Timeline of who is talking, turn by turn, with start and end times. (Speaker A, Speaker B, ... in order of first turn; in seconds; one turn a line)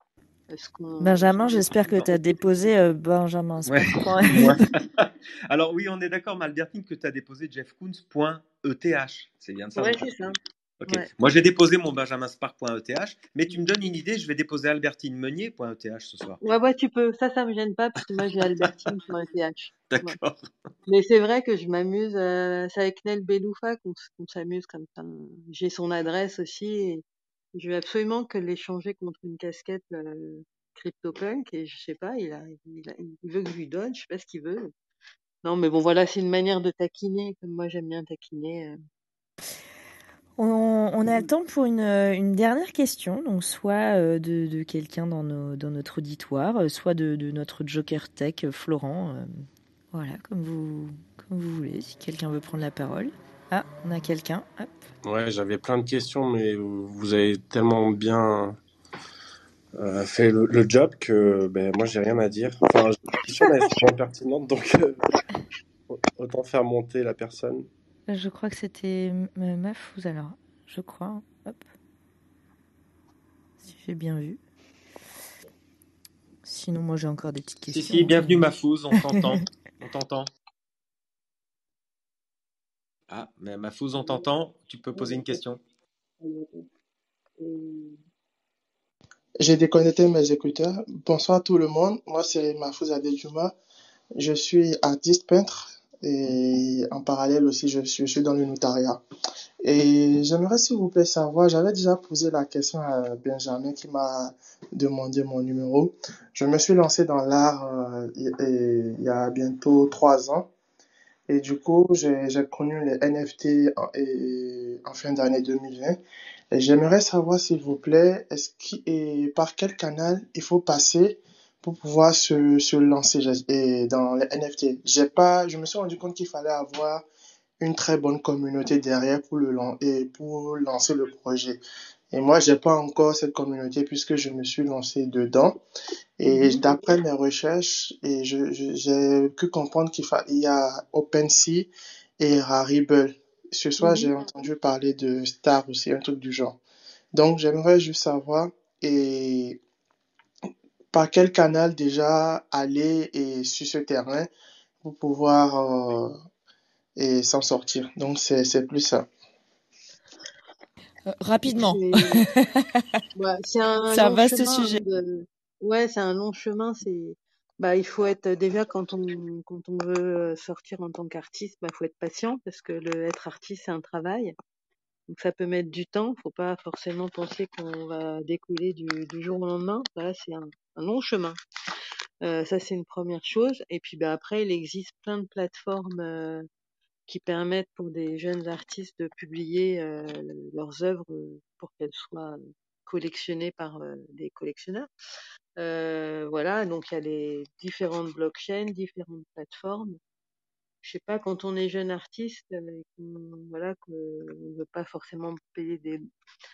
Speaker A: 0.5-2.4
Speaker B: 1.0-4.6
Speaker C: 3.6-10.1
Speaker A: 9.8-10.3
Speaker C: 10.8-16.4
Speaker A: 16.4-20.2
Speaker C: 19.9-20.5
Speaker A: 20.9-27.0
Speaker A: 27.5-34.7
Speaker A: 35.4-38.7
Speaker B: 40.4-49.4
Speaker B: 49.9-54.8
Speaker D: 55.0-58.6
Speaker D: 59.8-65.0
Speaker D: 65.9-67.7
Speaker B: 68.1-71.6
Speaker B: 73.6-74.4
Speaker B: 76.4-78.4
Speaker C: 77.7-80.3
Speaker C: 83.1-85.6
Speaker A: 84.0-84.2
Speaker A: 84.9-85.4
Speaker A: 86.2-86.7
Speaker A: 87.4-88.0
Speaker E: 89.4-93.5
Speaker E: 94.2-99.0
Speaker E: 99.6-110.5
Speaker E: 111.3-116.0
Speaker E: 116.5-127.0
Speaker E: 127.6-131.6
Speaker E: 132.1-135.6
Speaker E: 136.2-146.6
Speaker A: 136.2-136.9
Speaker A: 143.8-144.1
Speaker E: 147.1-149.6
Speaker E: 150.9-154.3
Speaker E: 154.8-156.1
Speaker E: 156.9-159.1
Speaker B: 161.1-162.8
Speaker A: 161.5-162.3
Speaker A: 163.1-174.3
Speaker B: 163.9-164.8
Speaker A: 175.1-181.4
Speaker A: 182.2-186.4
Speaker A: 187.1-194.9
Speaker A: 195.6-200.0
Speaker A: 200.8-206.0